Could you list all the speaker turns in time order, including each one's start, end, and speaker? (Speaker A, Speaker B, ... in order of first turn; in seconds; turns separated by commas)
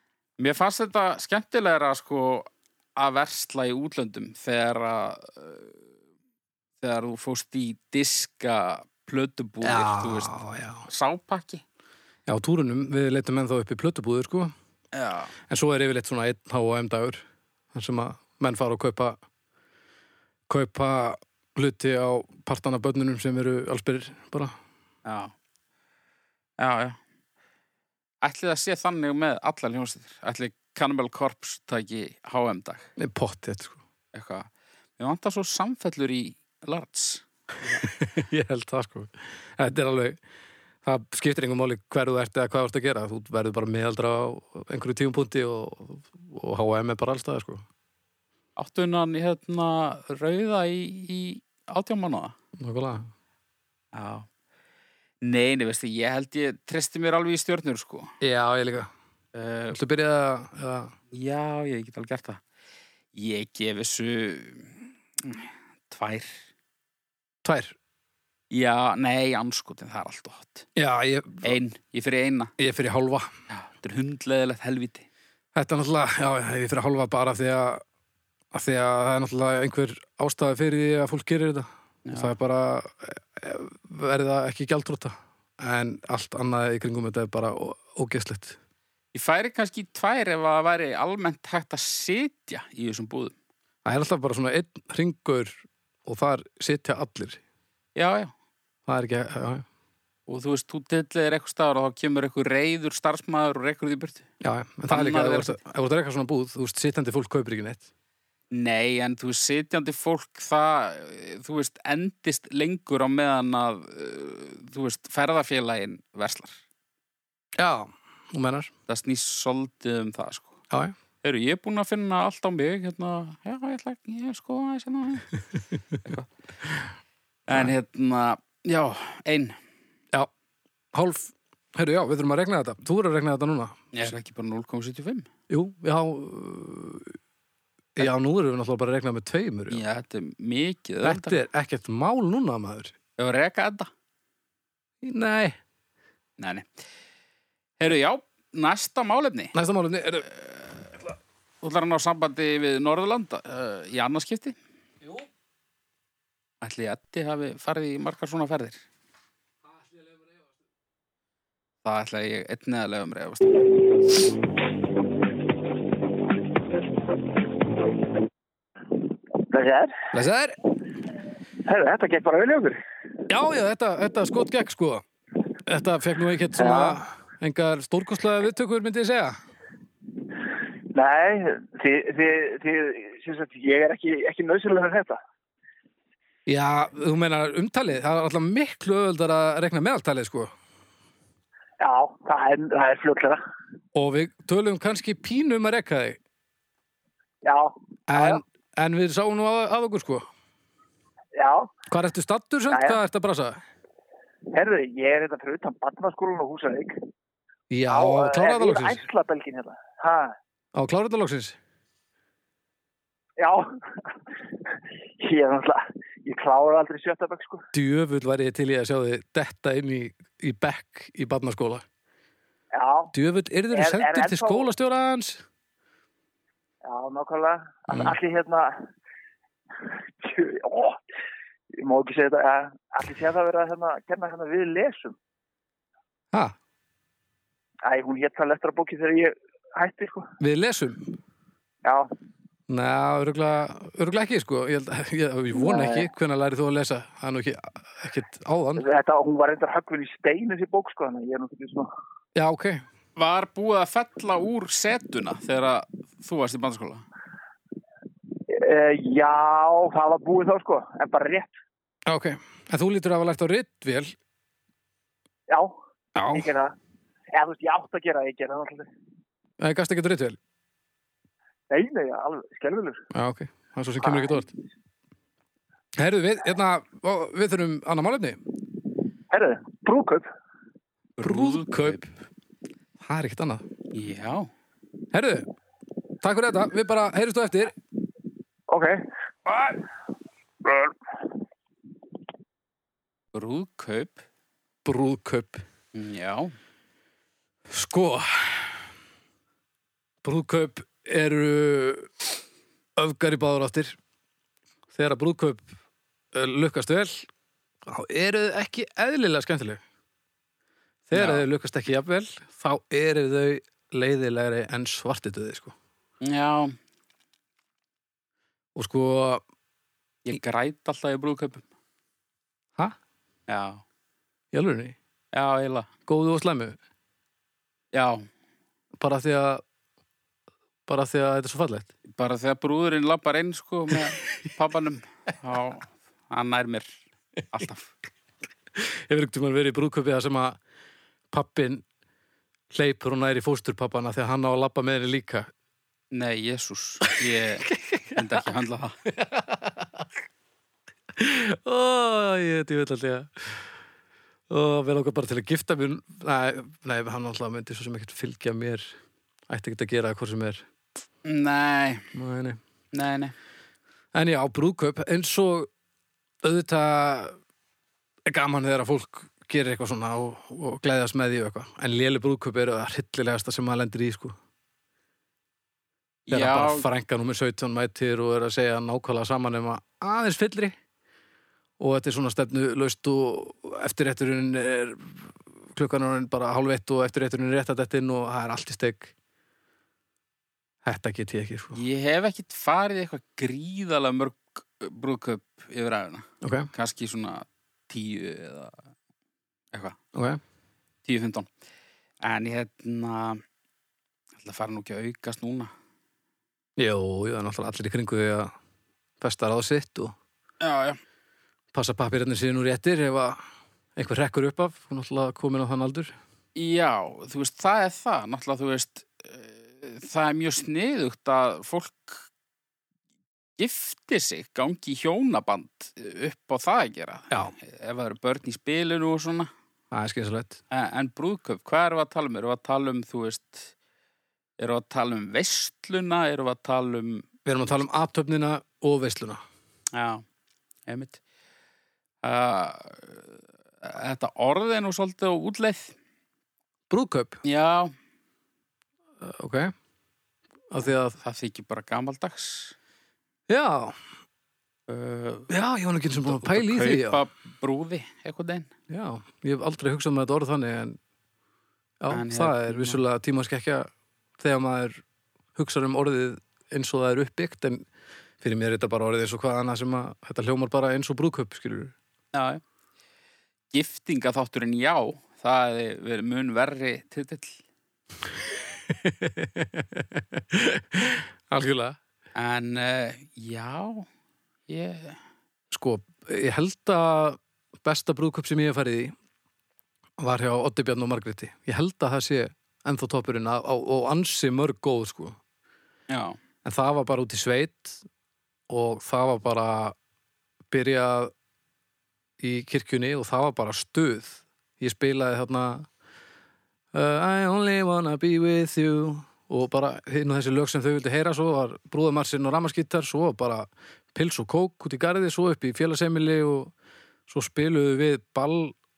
Speaker A: 0.4-5.7, Speaker A: 6.8-11.6, Speaker B: 9.6-10.8, Speaker B: 12.3-14.5, Speaker A: 14.9-15.3, Speaker B: 15.5-19.2, Speaker B: 20.5-24.5, Speaker A: 25.0-25.3, Speaker A: 26.6-27.0, Speaker A: 28.2-32.9, Speaker B: 33.0-33.8, Speaker A: 34.1-37.8, Speaker B: 37.8-40.2, Speaker B: 40.8-47.6, Speaker A: 48.6-52.3, Speaker B: 52.6-53.1, Speaker A: 53.9-54.3, Speaker A: 55.2-58.1, Speaker B: 58.2-58.9, Speaker A: 59.3-59.8, Speaker B: 59.7-60.9, Speaker A: 61.1-62.4, Speaker A: 63.1-66.4, Speaker B: 67.4-67.8, Speaker A: 68.5-70.7, Speaker B: 70.8-71.5, Speaker A: 71.4-72.5, Speaker B: 72.6-73.3, Speaker A: 73.5-75.0, Speaker B: 75.5-77.8, Speaker B: 78.5-88.6, Speaker A: 82.0-82.3, Speaker A: 89.1-93.3, Speaker B: 93.8-97.4, Speaker A: 98.0-98.3, Speaker B: 98.9-99.7, Speaker A: 100.3-104.3, Speaker B: 104.4-107.8, Speaker A: 104.9-105.6, Speaker A: 108.5-116.6, Speaker B: 117.6-118.7, Speaker A: 118.9-120.6, Speaker A: 121.2-125.3, Speaker A: 126.0-126.3, Speaker A: 127.5-129.6, Speaker B: 130.9-134.1, Speaker A: 133.9-135.3, Speaker B: 135.5-137.1, Speaker B: 137.9-139.8, Speaker A: 139.7-141.4, Speaker B: 141.0-142.9, Speaker A: 143.2-143.9, Speaker B: 145.0-145.6, Speaker A: 146.4-146.8, Speaker A: 147.8-149.5, Speaker B: 149.5-150.3, Speaker A: 150.3-150.9, Speaker A: 151.6-154.6, Speaker B: 155.0-155.3, Speaker A: 156.6-158.8, Speaker B: 159.7-160.4, Speaker A: 161.8-163.6, Speaker C: 169.4-169.9, Speaker B: 170.1-170.6, Speaker C: 171.6-172.8, Speaker B: 173.3-175.0, Speaker B: 175.7-179.3, Speaker C: 176.6-177.0, Speaker C: 180.9-185.2, Speaker B: 186.5-190.5, Speaker C: 191.8-193.4, Speaker B: 193.9-196.2, Speaker C: 197.4-198.4, Speaker B: 198.1-200.3, Speaker C: 201.3-201.7, Speaker B: 201.9-203.6, Speaker C: 202.7-203.0, Speaker C: 204.5-207.0, Speaker B: 207.7-209.0, Speaker C: 207.9-210.3, Speaker B: 210.7-211.6, Speaker C: 213.4-214.1, Speaker C: 215.2-217.7, Speaker B: 217.7-221.8, Speaker C: 222.7-223.1, Speaker B: 223.1-225.4, Speaker C: 223.7-224.7, Speaker C: 226.8-228.8, Speaker B: 227.9-228.2, Speaker C: 229.8-231.0, Speaker C: 231.7-235.2, Speaker C: 237.8-240.3, Speaker B: 240.4-241.1, Speaker C: 241.8-242.1, Speaker B: 242.7-248.8, Speaker C: 245.5-246.1, Speaker C: 248.8-251.9, Speaker B: 252.3-252.8, Speaker A: 253.2-257.0, Speaker C: 258.5-261.5, Speaker B: 262.1-264.1, Speaker C: 265.5-265.8, Speaker B: 266.1-266.4, Speaker C: 266.3-266.7, Speaker C: 267.3-268.9, Speaker B: 269.6-270.4, Speaker C: 271.7-273.0, Speaker B: 273.1-274.5, Speaker C: 274.0-274.5, Speaker B: 276.0-278.4, Speaker C: 279.3-280.3, Speaker A: 281.2-282.0, Speaker B: 281.2-282.1, Speaker B: 283.0-283.6, Speaker A: 283.9-284.5, Speaker B: 285.1-285.4, Speaker B: 286.2-287.7, Speaker C: 288.7-289.0, Speaker C: 290.6-290.9, Speaker A: 293.3-294.2, Speaker B: 294.8-295.6, Speaker A: 295.9-296.5, Speaker B: 297.7-298.8, Speaker B: 300.2-302.2, Speaker B: 303.0-304.0, Speaker B: 304.9-305.7, Speaker B: 306.3-307.3, Speaker B: 307.9-309.8, Speaker B: 311.1-315.7, Speaker A: 311.1-311.4, Speaker A: 316.2-316.8, Speaker B: 318.7-319.4, Speaker A: 320.2-321.6, Speaker A: 323.5-323.8, Speaker B: 324.5-324.9, Speaker A: 325.3-325.9, Speaker B: 326.1-326.8, Speaker A: 327.9-328.2, Speaker B: 329.0-329.6, Speaker B: 330.9-331.9, Speaker A: 332.1-337.0, Speaker A: 337.5-337.9, Speaker B: 338.8-340.6, Speaker B: 341.3-341.8, Speaker B: 342.7-345.5, Speaker A: 346.1-349.0, Speaker B: 347.6-348.4, Speaker B: 349.1-350.1, Speaker B: 351.2-353.7, Speaker B: 354.5-358.9, Speaker B: 359.5-360.7, Speaker A: 361.2-362.1, Speaker B: 362.1-362.6, Speaker A: 362.9-363.3, Speaker B: 364.1-365.7, Speaker B: 366.4-367.4, Speaker B: 368.2-374.3, Speaker A: 376.3-376.9, Speaker B: 376.3-380.7, Speaker B: 381.8-389.1, Speaker B: 390.8-391.8, Speaker A: 391.7-398.8, Speaker B: 396.4-396.7, Speaker B: 400.1-400.4, Speaker A: 401.0-401.5, Speaker A: 402.2-403.4, Speaker A: 404.4-405.7, Speaker B: 406.8-408.5, Speaker B: 409.2-410.1, Speaker A: 410.6-411.0, Speaker B: 411.7-413.4, Speaker B: 413.9-416.1, Speaker A: 416.5-422.2, Speaker A: 423.6-429.5, Speaker B: 429.9-430.6, Speaker A: 430.7-433.7, Speaker A: 434.6-437.3, Speaker B: 437.4-439.4, Speaker A: 439.9-440.2, Speaker A: 440.9-441.2, Speaker A: 442.2-445.9, Speaker B: 446.9-447.4, Speaker A: 447.4-447.9, Speaker B: 449.2-449.7, Speaker B: 450.7-451.1, Speaker A: 451.2-452.7, Speaker B: 453.5-454.0, Speaker A: 454.9-455.5, Speaker B: 455.5-457.2, Speaker A: 456.2-458.7, Speaker B: 458.9-461.0, Speaker B: 462.0-465.0, Speaker A: 462.1-463.0, Speaker B: 465.6-467.9, Speaker B: 468.4-471.9, Speaker A: 472.3-472.6, Speaker A: 473.7-477.6, Speaker B: 478.5-482.0, Speaker A: 482.4-484.1, Speaker A: 484.7-485.2, Speaker B: 485.7-489.1, Speaker B: 490.2-495.4, Speaker A: 496.1-496.4, Speaker B: 496.6-498.0, Speaker B: 498.7-499.9, Speaker B: 500.7-501.3, Speaker B: 502.4-505.9, Speaker B: 506.9-516.7, Speaker B: 517.3-518.7